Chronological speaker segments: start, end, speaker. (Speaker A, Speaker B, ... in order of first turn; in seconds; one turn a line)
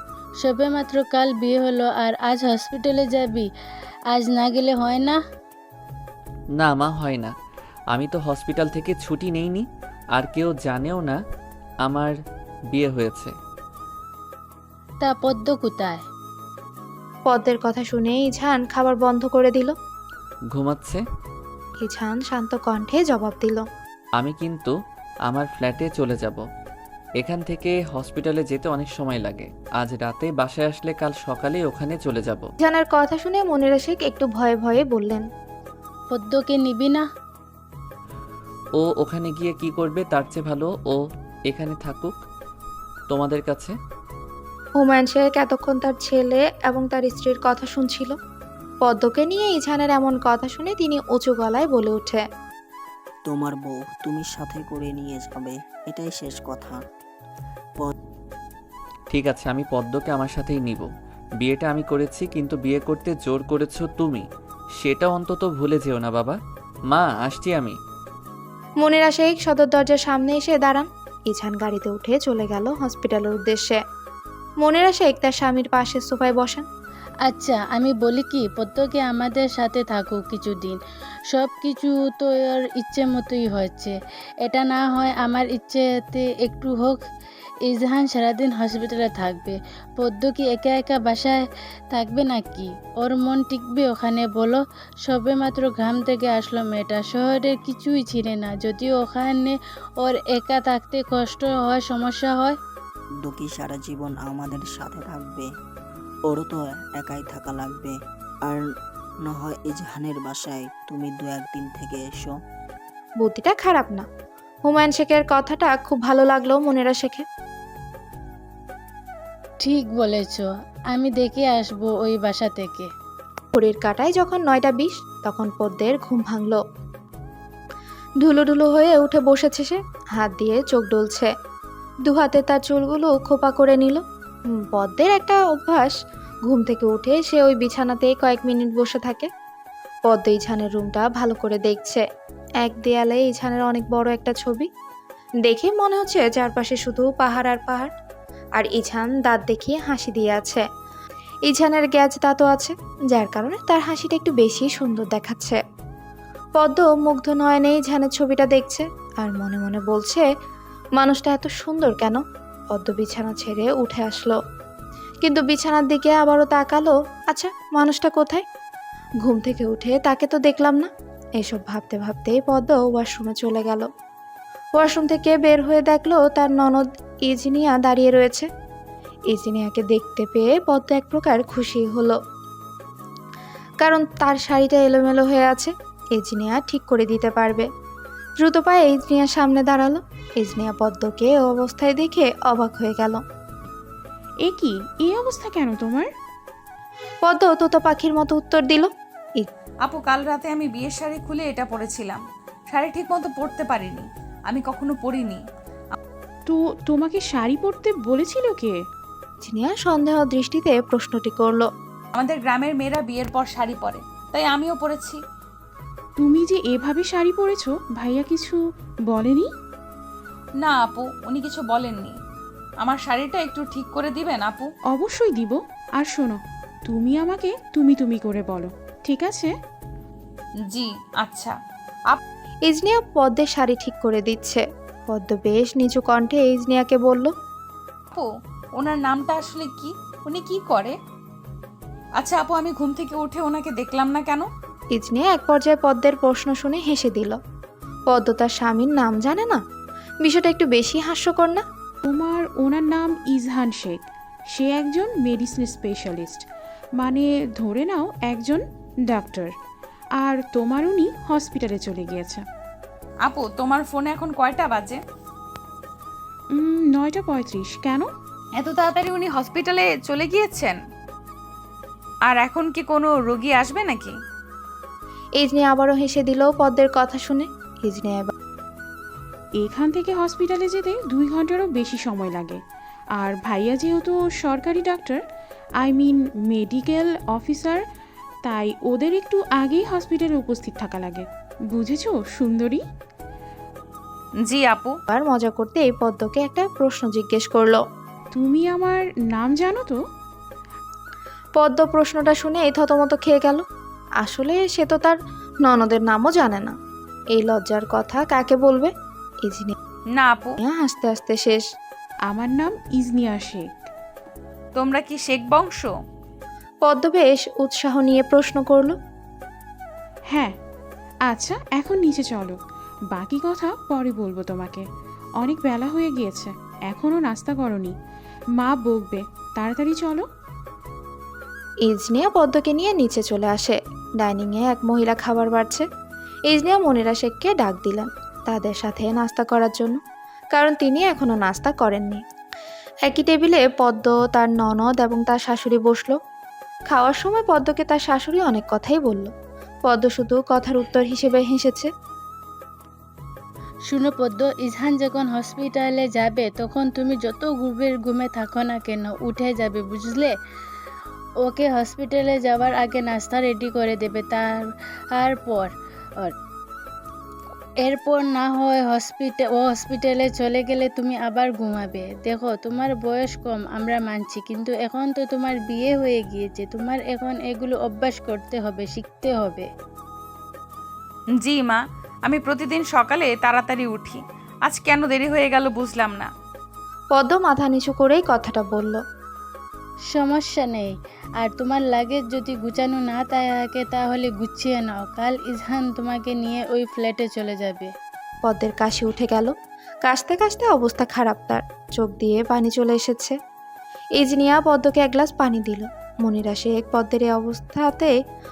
Speaker A: 0.4-3.5
Speaker A: 4.1-5.2
Speaker B: 6.6-7.3
Speaker B: 7.9-11.2
Speaker B: 11.8-12.2
Speaker B: 12.7-13.3
Speaker A: 15.0-16.0
Speaker C: 17.3-19.7
Speaker B: 20.5-21.0
Speaker C: 21.8-23.6
Speaker B: 24.1-26.4
Speaker B: 27.2-32.5
Speaker C: 32.6-35.2
Speaker A: 36.1-37.0
Speaker B: 38.8-42.2
Speaker B: 43.1-43.7
Speaker C: 44.8-48.2
Speaker C: 48.8-52.2
Speaker D: 53.3-56.8
Speaker B: 59.1-60.9
Speaker B: 61.4-64.2
Speaker B: 64.8-66.4
Speaker B: 66.9-67.8
Speaker C: 68.8-73.8
Speaker C: 74.6-76.7
Speaker A: 77.2-80.8
Speaker A: 81.3-87.0
Speaker A: 87.7-91.4
Speaker A: 91.9-102.6
Speaker D: 103.2-105.5
Speaker D: 106.3-107.9
Speaker D: 109.2-112.3
Speaker C: 113.2-114.0
Speaker C: 114.7-117.2
Speaker A: 119.6-122.9
Speaker C: 123.5-126.6
Speaker C: 128.2-131.3
Speaker C: 132.0-134.0
Speaker C: 134.5-135.9
Speaker C: 136.5-139.3
Speaker C: 140.1-142.0
Speaker C: 142.6-144.7
Speaker C: 145.4-147.9
Speaker C: 148.6-150.6
Speaker C: 151.5-155.6
Speaker C: 156.6-160.3
Speaker C: 161.0-164.4
Speaker C: 165.2-168.4
Speaker C: 169.2-173.9
Speaker C: 174.8-178.5
Speaker C: 179.3-182.2
Speaker C: 183.8-187.7
Speaker C: 188.4-193.2
Speaker E: 194.4-196.1
Speaker C: 197.2-199.5
Speaker F: 199.8-205.4
Speaker E: 206.5-208.8
Speaker C: 209.4-211.7
Speaker F: 212.1-215.2
Speaker E: 216.2-219.5
Speaker F: 220.6-222.2
Speaker F: 222.8-224.7
Speaker E: 224.9-229.5
Speaker F: 230.7-231.6
Speaker C: 232.7-237.3
Speaker F: 238.1-240.9
Speaker F: 242.2-244.5
Speaker C: 244.9-247.4
Speaker C: 248.1-249.6
Speaker C: 250.2-251.6
Speaker E: 252.0-254.0
Speaker E: 254.5-256.4
Speaker E: 257.0-259.5
Speaker E: 260.2-262.4
Speaker F: 263.2-265.0
Speaker E: 266.5-268.1
Speaker F: 268.5-270.8
Speaker F: 272.2-274.2
Speaker C: 275.4-278.3
Speaker E: 279.6-282.6
Speaker E: 283.1-285.2
Speaker E: 285.8-287.8
Speaker E: 288.4-292.8
Speaker F: 294.4-295.0
Speaker C: 295.1-297.8
Speaker E: 298.3-300.0
Speaker C: 301.6-303.6
Speaker C: 304.2-306.8
Speaker C: 307.3-309.7
Speaker F: 310.1-310.6
Speaker C: 310.6-311.6
Speaker E: 312.3-313.9
Speaker F: 314.8-315.9
Speaker C: 316.8-319.0
Speaker E: 321.3-322.6
Speaker E: 323.1-324.8
Speaker E: 325.4-327.9
Speaker E: 328.6-330.2
Speaker C: 331.9-335.9
Speaker C: 336.5-340.0
Speaker C: 340.5-342.2
Speaker C: 343.0-346.2
Speaker C: 346.9-349.3
Speaker C: 349.9-351.9
Speaker A: 353.9-360.3
Speaker A: 361.4-366.3
Speaker A: 367.8-379.7
Speaker F: 381.4-386.3
Speaker C: 387.1-389.0
Speaker A: 390.1-397.9
Speaker C: 398.4-403.4
Speaker C: 404.2-408.1